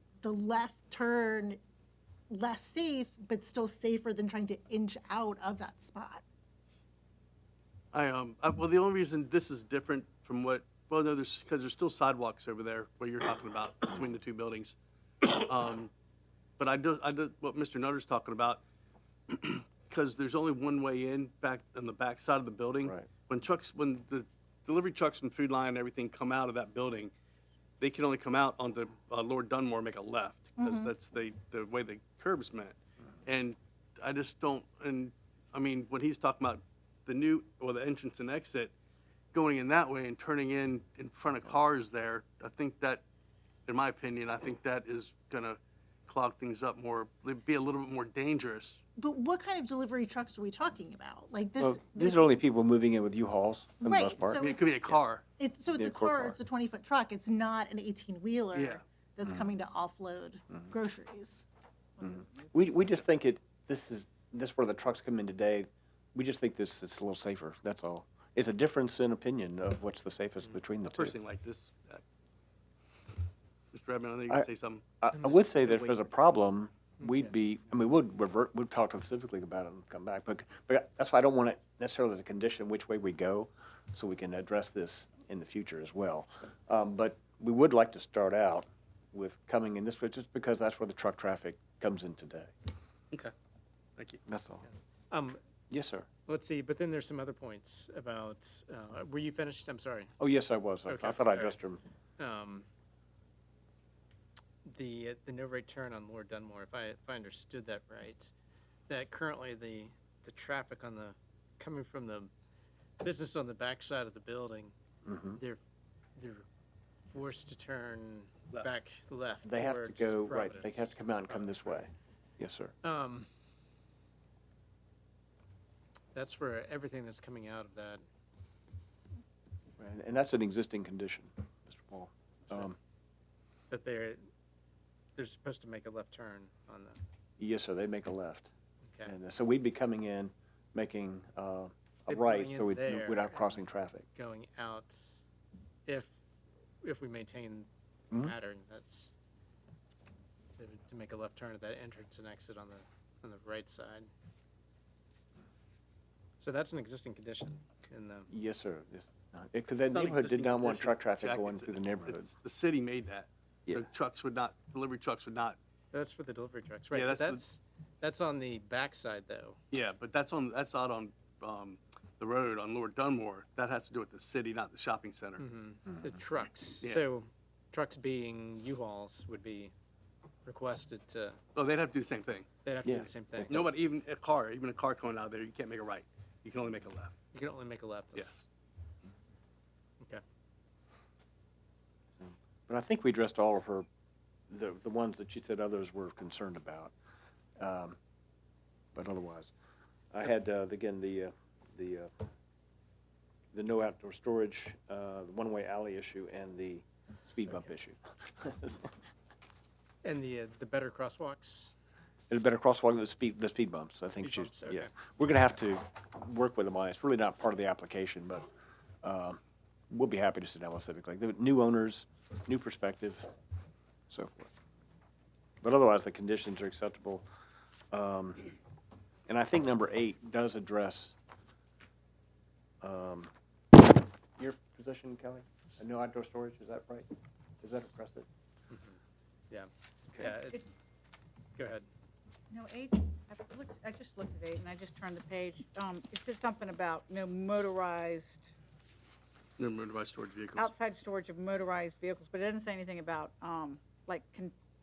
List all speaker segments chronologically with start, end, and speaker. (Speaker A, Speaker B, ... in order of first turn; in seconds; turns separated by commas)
Speaker A: 0.2-1.6, Speaker A: 2.3-6.2, Speaker B: 7.9-15.9, Speaker B: 16.6-18.6, Speaker B: 19.3-27.1, Speaker B: 27.8-38.7, Speaker A: 30.6-30.9, Speaker B: 39.3-43.0, Speaker B: 43.7-48.8, Speaker A: 49.0-52.4, Speaker C: 51.6-54.4, Speaker A: 53.8-54.7, Speaker B: 54.4-55.2, Speaker A: 55.4-61.5, Speaker C: 55.7-56.4, Speaker B: 58.5-58.8, Speaker C: 62.0-71.1, Speaker B: 70.8-72.0, Speaker B: 73.7-75.0, Speaker C: 75.0-92.5, Speaker D: 75.6-75.9, Speaker D: 77.0-77.3, Speaker C: 94.2-94.7, Speaker D: 95.1-95.4, Speaker C: 95.7-96.1, Speaker D: 96.2-100.2, Speaker C: 100.2-101.8, Speaker D: 100.9-101.6, Speaker D: 102.2-102.7, Speaker D: 104.7-108.3, Speaker D: 108.9-112.3, Speaker D: 113.0-114.7, Speaker C: 115.0-115.4, Speaker D: 116.2-116.4, Speaker D: 117.1-121.8, Speaker C: 119.4-122.7, Speaker D: 122.8-123.3, Speaker D: 126.1-128.0, Speaker C: 129.8-132.8, Speaker D: 133.7-134.2, Speaker D: 135.2-137.0, Speaker C: 137.4-138.5, Speaker D: 138.9-139.1, Speaker C: 139.0-144.1, Speaker D: 142.1-145.2, Speaker D: 145.8-146.2, Speaker D: 146.8-149.1, Speaker D: 150.5-154.1, Speaker D: 156.4-158.3, Speaker C: 158.3-162.3, Speaker B: 159.9-165.6, Speaker D: 165.9-169.6, Speaker B: 166.9-167.4, Speaker B: 169.7-175.4, Speaker D: 175.4-179.7, Speaker D: 180.4-181.4, Speaker B: 181.6-182.5, Speaker D: 182.6-183.6, Speaker C: 182.8-183.7, Speaker B: 183.5-187.1, Speaker D: 187.3-188.4, Speaker C: 192.2-193.8, Speaker C: 194.5-196.9, Speaker C: 197.6-198.0, Speaker C: 198.9-199.5, Speaker C: 200.1-202.1, Speaker C: 203.5-208.9, Speaker D: 207.4-207.7, Speaker D: 210.0-211.7, Speaker C: 212.3-218.5, Speaker D: 214.2-214.9, Speaker C: 219.0-219.4, Speaker C: 219.9-223.3, Speaker C: 224.1-224.5, Speaker C: 225.6-227.2, Speaker C: 227.9-228.4, Speaker C: 229.3-231.1, Speaker C: 232.8-233.3, Speaker C: 234.4-237.1, Speaker C: 237.6-238.3, Speaker D: 238.7-239.0, Speaker D: 239.5-240.6, Speaker D: 241.6-241.9, Speaker E: 242.5-248.5, Speaker B: 249.6-250.7, Speaker E: 250.6-254.5